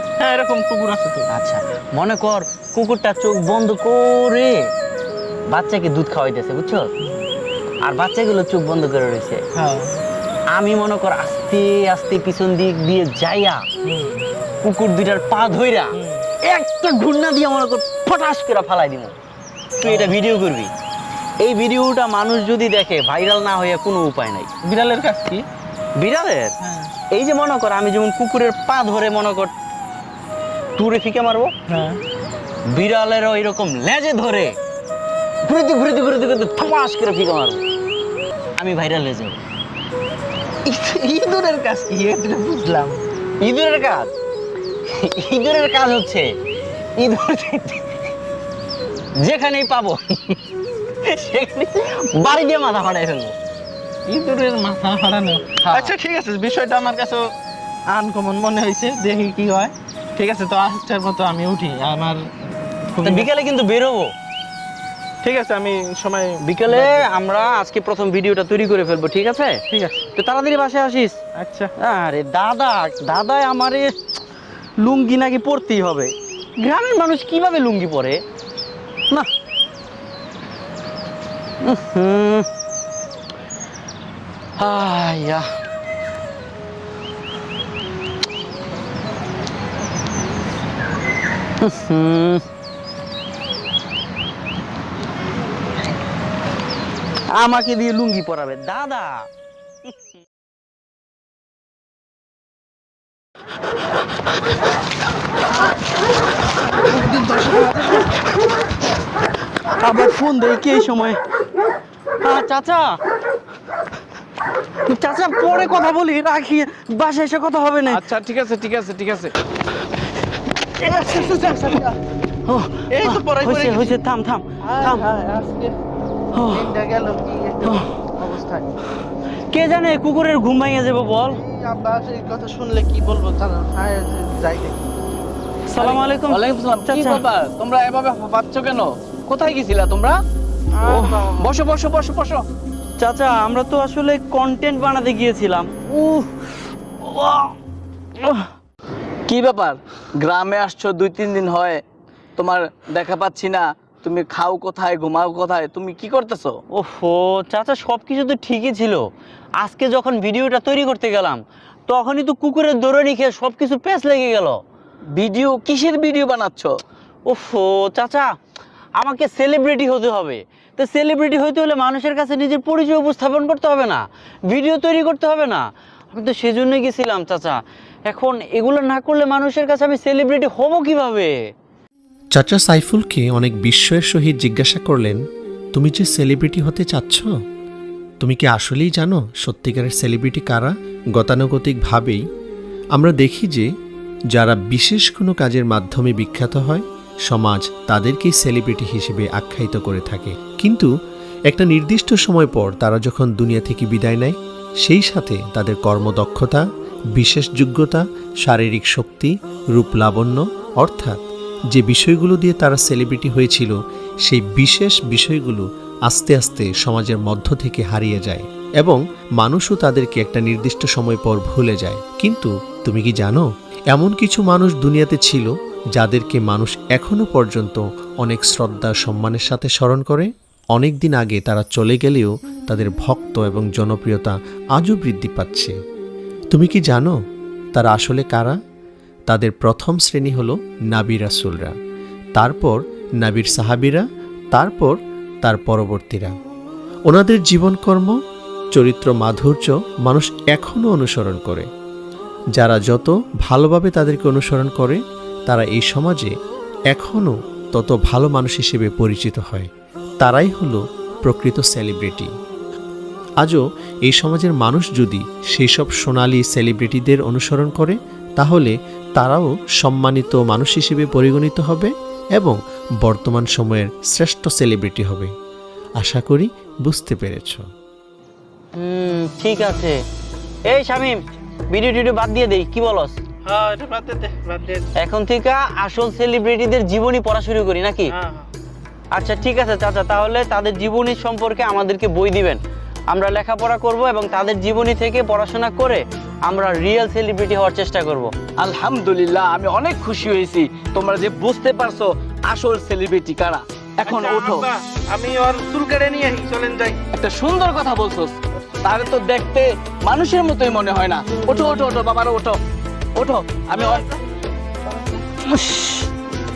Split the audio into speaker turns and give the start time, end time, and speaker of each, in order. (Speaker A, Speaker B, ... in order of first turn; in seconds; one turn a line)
Speaker A: 0.2-1.3
Speaker B: 1.3-4.6
Speaker B: 5.5-6.9
Speaker B: 7.8-9.4
Speaker A: 9.5-10.0
Speaker B: 10.5-13.7
Speaker A: 13.9-14.3
Speaker B: 14.6-19.1
Speaker B: 19.8-20.7
Speaker A: 19.8-20.1
Speaker B: 21.4-24.5
Speaker A: 24.6-25.4
Speaker B: 26.0-26.5
Speaker A: 26.6-26.9
Speaker B: 27.1-29.5
Speaker B: 30.8-31.5
Speaker A: 31.7-32.0
Speaker B: 32.7-34.5
Speaker B: 35.5-37.6
Speaker B: 38.6-39.4
Speaker A: 40.7-43.0
Speaker B: 43.4-44.1
Speaker B: 44.9-46.3
Speaker B: 47.0-47.9
Speaker B: 49.2-50.4
Speaker B: 51.0-53.4
Speaker A: 54.1-57.2
Speaker B: 55.6-55.9
Speaker A: 57.9-62.3
Speaker A: 62.9-63.3
Speaker B: 63.0-64.1
Speaker A: 65.2-67.1
Speaker B: 66.4-69.6
Speaker A: 69.7-70.0
Speaker B: 70.2-71.2
Speaker A: 71.3-71.7
Speaker B: 71.8-73.9
Speaker B: 74.8-78.2
Speaker B: 81.6-82.5
Speaker B: 84.6-85.5
Speaker B: 91.6-92.4
Speaker B: 97.3-99.3
Speaker A: 106.8-108.1
Speaker B: 109.7-111.2
Speaker B: 112.2-113.0
Speaker B: 114.9-118.1
Speaker C: 117.9-119.3
Speaker A: 120.8-122.0
Speaker B: 122.5-125.0
Speaker A: 122.9-123.9
Speaker A: 124.6-125.8
Speaker B: 126.3-126.7
Speaker A: 126.5-128.7
Speaker B: 129.5-131.4
Speaker A: 131.3-134.9
Speaker B: 135.7-137.2
Speaker C: 135.8-140.2
Speaker A: 140.7-141.5
Speaker B: 140.8-141.3
Speaker C: 141.4-142.4
Speaker B: 143.0-146.3
Speaker B: 147.0-147.5
Speaker C: 149.3-151.8
Speaker C: 152.4-156.6
Speaker B: 156.7-159.1
Speaker B: 159.6-164.6
Speaker C: 165.1-166.8
Speaker B: 167.3-168.3
Speaker B: 169.0-181.4
Speaker D: 182.3-185.2
Speaker D: 185.8-187.3
Speaker D: 188.2-192.2
Speaker D: 192.9-193.7
Speaker D: 194.3-200.9
Speaker D: 201.5-206.6
Speaker D: 207.2-213.8
Speaker D: 214.3-235.7
Speaker D: 236.5-237.2
Speaker D: 237.7-238.6
Speaker D: 239.3-241.8
Speaker D: 242.4-246.3
Speaker D: 247.1-248.2
Speaker D: 248.7-251.7
Speaker D: 252.6-256.3
Speaker D: 256.9-259.7
Speaker D: 260.2-262.3
Speaker D: 263.4-275.3
Speaker D: 276.0-277.7
Speaker B: 278.8-280.0
Speaker B: 280.7-281.2
Speaker B: 281.7-283.2
Speaker A: 283.4-284.9
Speaker B: 285.0-288.1
Speaker A: 288.1-288.5
Speaker B: 289.1-292.6
Speaker B: 293.1-298.3
Speaker C: 298.6-304.7
Speaker A: 304.0-307.0
Speaker C: 307.1-312.6
Speaker C: 313.2-314.1
Speaker B: 315.4-316.1